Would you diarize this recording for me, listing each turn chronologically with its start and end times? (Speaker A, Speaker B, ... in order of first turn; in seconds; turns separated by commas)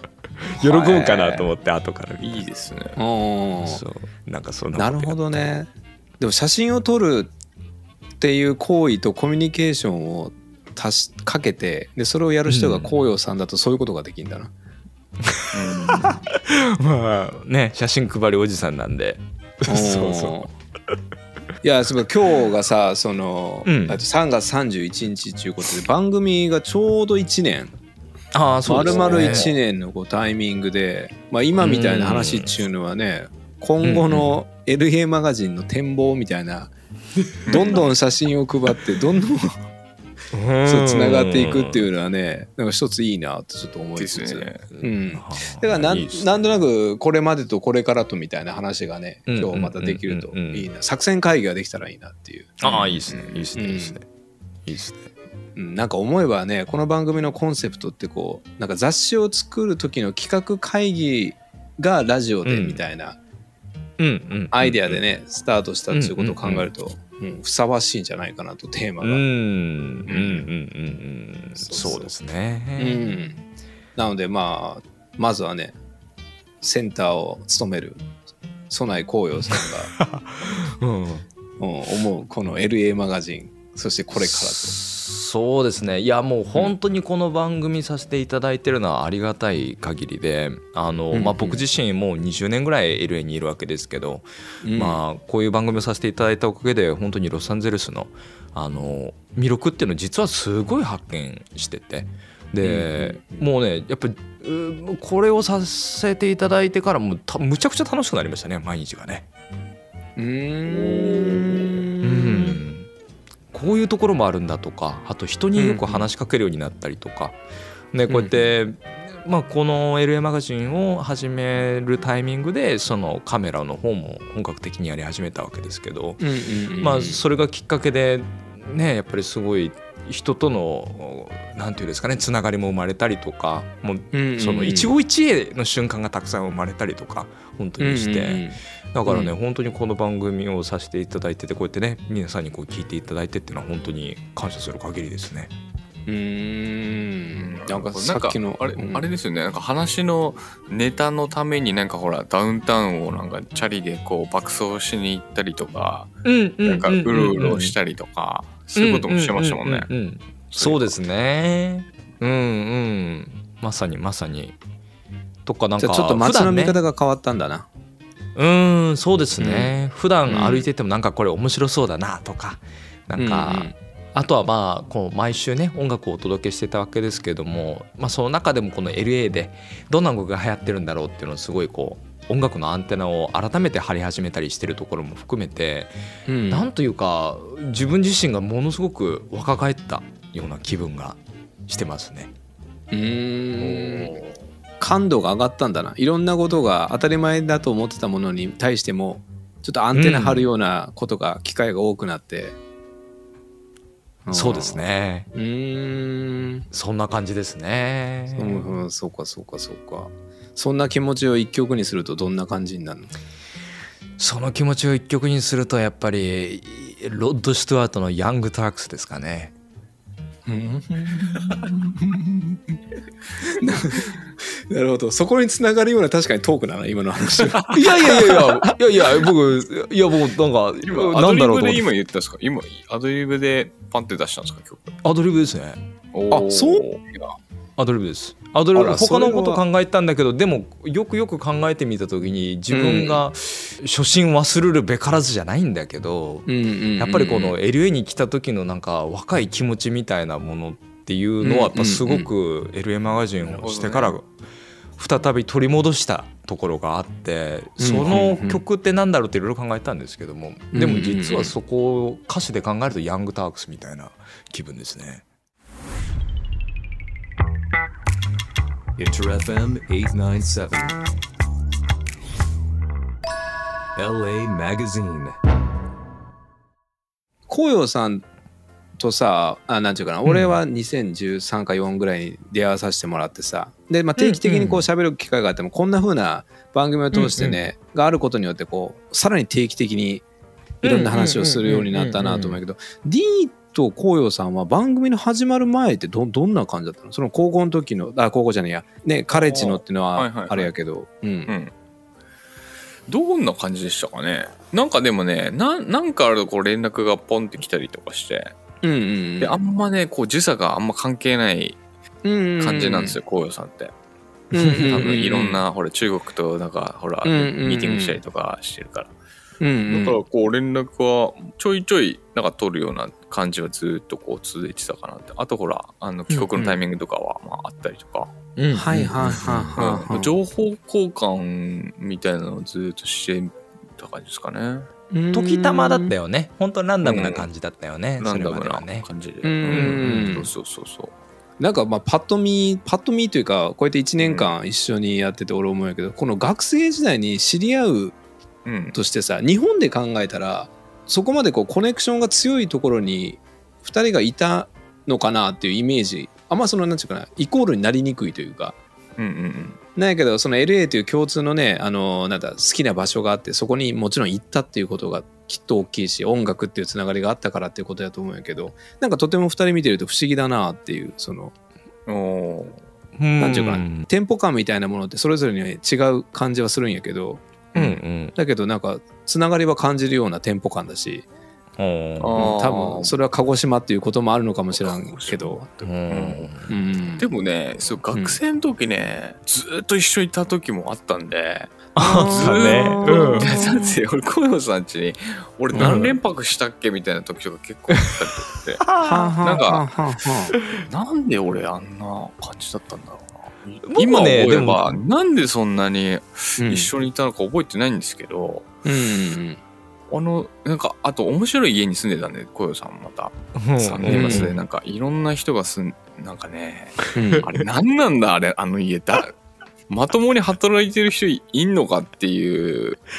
Speaker A: 0.4-2.5, Speaker B: 0.6-1.4, Speaker C: 2.2-3.0, Speaker B: 3.0-3.8, Speaker A: 3.6-5.5, Speaker B: 4.8-7.3, Speaker B: 8.2-14.5, Speaker A: 12.5-12.9, Speaker A: 15.2-20.4, Speaker C: 15.5-16.2, Speaker B: 19.7-20.5, Speaker B: 21.6-27.7, Speaker A: 23.7-24.0, Speaker A: 28.3-29.5, Speaker B: 28.7-36.7, Speaker C: 28.8-29.5, Speaker A: 31.6-32.6, Speaker A: 33.8-34.4, Speaker C: 37.5-37.9, Speaker B: 37.5-39.6, Speaker A: 40.3-41.9, Speaker B: 40.6-53.0, Speaker C: 44.0-44.6, Speaker A: 44.8-46.4, Speaker A: 49.3-50.7, Speaker A: 52.6-54.1, Speaker C: 52.6-53.5, Speaker B: 53.5-54.0, Speaker A: 54.7-55.1, Speaker B: 55.6-63.2, Speaker A: 62.5-62.8, Speaker A: 64.0-65.0, Speaker B: 64.5-69.2, Speaker A: 65.9-66.7, Speaker A: 69.0-73.0, Speaker C: 70.1-70.4, Speaker B: 71.6-72.1, Speaker B: 72.8-73.4, Speaker B: 74.0-75.8, Speaker B: 76.6-78.0, Speaker B: 78.7-79.9, Speaker A: 79.5-81.2, Speaker B: 81.6-84.8, Speaker A: 84.2-109.3, Speaker B: 91.1-91.6, Speaker B: 94.6-95.0, Speaker B: 102.6-103.4, Speaker B: 110.2-112.6, Speaker C: 110.7-111.9, Speaker A: 112.0-112.9, Speaker A: 113.5-117.4, Speaker B: 115.6-116.1, Speaker A: 117.9-126.2, Speaker B: 118.1-118.5, Speaker B: 126.2-127.2, Speaker A: 126.8-145.5, Speaker B: 134.1-134.9, Speaker B: 137.8-139.3, Speaker B: 146.1-149.1, Speaker C: 147.3-156.1, Speaker A: 156.2-157.8, Speaker C: 156.7-159.9, Speaker A: 158.8-164.6, Speaker C: 160.5-160.9, Speaker A: 165.5-166.8, Speaker B: 165.8-167.7, Speaker A: 168.3-185.9, Speaker B: 169.4-169.7, Speaker B: 170.3-170.7, Speaker B: 173.2-173.8, Speaker B: 186.3-186.7, Speaker A: 186.5-192.3, Speaker B: 192.9-194.2, Speaker A: 193.6-194.3, Speaker B: 194.8-202.6, Speaker A: 199.9-200.5, Speaker B: 204.3-204.8, Speaker A: 204.3-205.3, Speaker B: 205.3-206.7, Speaker A: 206.7-208.7, Speaker B: 208.3-213.1, Speaker A: 214.2-219.5, Speaker B: 220.5-222.6, Speaker B: 223.4-228.8, Speaker A: 227.7-231.9, Speaker C: 230.8-235.0, Speaker A: 235.0-235.8, Speaker C: 236.1-237.0, Speaker B: 236.3-236.9, Speaker A: 237.8-254.3, Speaker B: 238.7-239.6, Speaker B: 242.7-243.2, Speaker B: 246.5-247.6, Speaker B: 251.4-252.3, Speaker C: 253.4-254.2, Speaker A: 255.0-265.2, Speaker B: 257.8-258.6, Speaker B: 260.7-261.6, Speaker D: 269.0-271.0, Speaker D: 273.9-275.4, Speaker B: 277.5-278.2, Speaker B: 279.0-290.2, Speaker A: 280.2-280.6, Speaker A: 284.2-284.9, Speaker A: 287.1-287.6, Speaker A: 290.8-292.6, Speaker B: 290.8-301.5, Speaker C: 299.3-300.7, Speaker C: 303.1-308.5, Speaker B: 308.8-309.6, Speaker C: 309.4-311.8, Speaker B: 312.2-313.2, Speaker C: 312.6-313.9, Speaker B: 314.5-315.6, Speaker A: 314.6-315.0, Speaker C: 314.8-319.1, Speaker B: 317.2-318.2, Speaker B: 319.6-320.2, Speaker C: 319.9-328.3, Speaker A: 326.4-326.8, Speaker A: 328.6-329.7, Speaker B: 328.7-330.3, Speaker C: 329.2-334.9, Speaker B: 335.1-336.1, Speaker A: 335.3-339.1, Speaker C: 337.0-337.5, Speaker C: 338.2-341.1, Speaker B: 339.4-340.5, Speaker A: 339.7-340.3, Speaker B: 341.6-348.1, Speaker C: 344.2-344.5, Speaker C: 348.6-349.0, Speaker B: 348.9-358.8, Speaker C: 359.2-359.8, Speaker B: 359.9-371.5, Speaker C: 372.1-372.8, Speaker A: 373.2-374.1, Speaker B: 373.4-377.4, Speaker C: 377.7-378.0, Speaker A: 377.8-378.3, Speaker B: 378.3-381.3, Speaker A: 381.8-382.4, Speaker C: 382.2-383.1, Speaker B: 382.4-385.7, Speaker C: 384.8-386.5, Speaker A: 385.8-386.7, Speaker B: 386.7-387.3, Speaker C: 387.2-399.8, Speaker B: 388.1-388.4, Speaker A: 391.9-393.6, Speaker B: 392.0-393.9, Speaker A: 395.7-396.1, Speaker B: 395.8-396.0, Speaker A: 398.8-399.3, Speaker B: 399.0-400.6, Speaker C: 400.8-408.7, Speaker A: 403.8-404.9, Speaker B: 406.6-406.9, Speaker B: 408.8-409.6, Speaker C: 410.1-419.3, Speaker A: 413.6-414.6, Speaker B: 414.1-414.5, Speaker B: 417.1-417.5, Speaker C: 419.9-423.0